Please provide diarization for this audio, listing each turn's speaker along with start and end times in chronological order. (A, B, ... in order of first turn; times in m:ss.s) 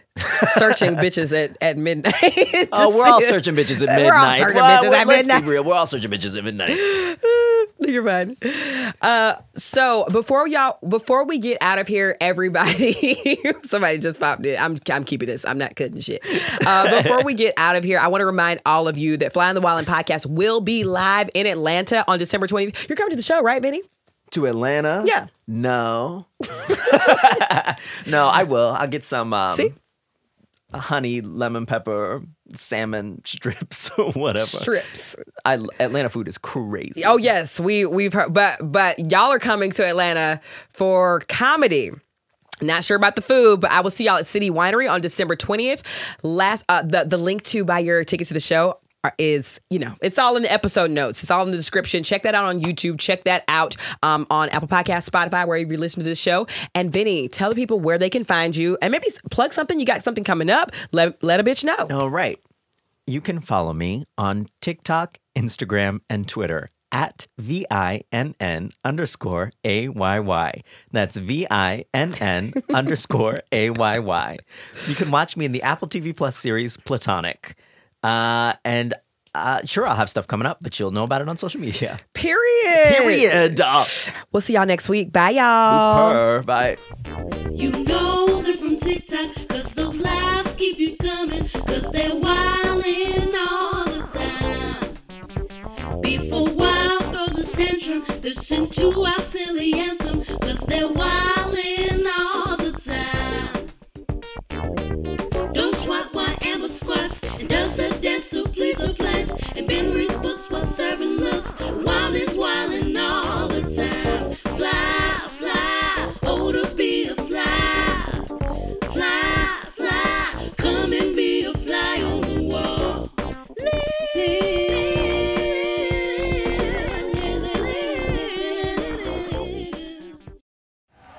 0:00.2-0:05.5 A
0:02.7-0:06.9 B
0:06.7-0:23.8 A
0:16.5-0:17.2 B
0:24.3-0:29.8 B
0:25.0-0:25.3 A
0:26.7-0:27.3 A
0:29.5-0:29.8 A
0:30.7-0:34.7 B
0:34.4-0:35.2 A
0:35.4-0:37.2 B
0:37.0-0:42.0 A
0:42.6-1:01.9 A
1:01.9-1:02.4 B
1:03.1-1:22.0 B
1:22.1-1:26.2 A
1:22.7-1:23.9 B
1:25.7-1:26.8 B
1:27.5-1:35.0 C
1:36.0-1:43.7 C
1:45.5-1:58.3 C
1:58.9-2:03.1 C
2:04.0-2:10.0 C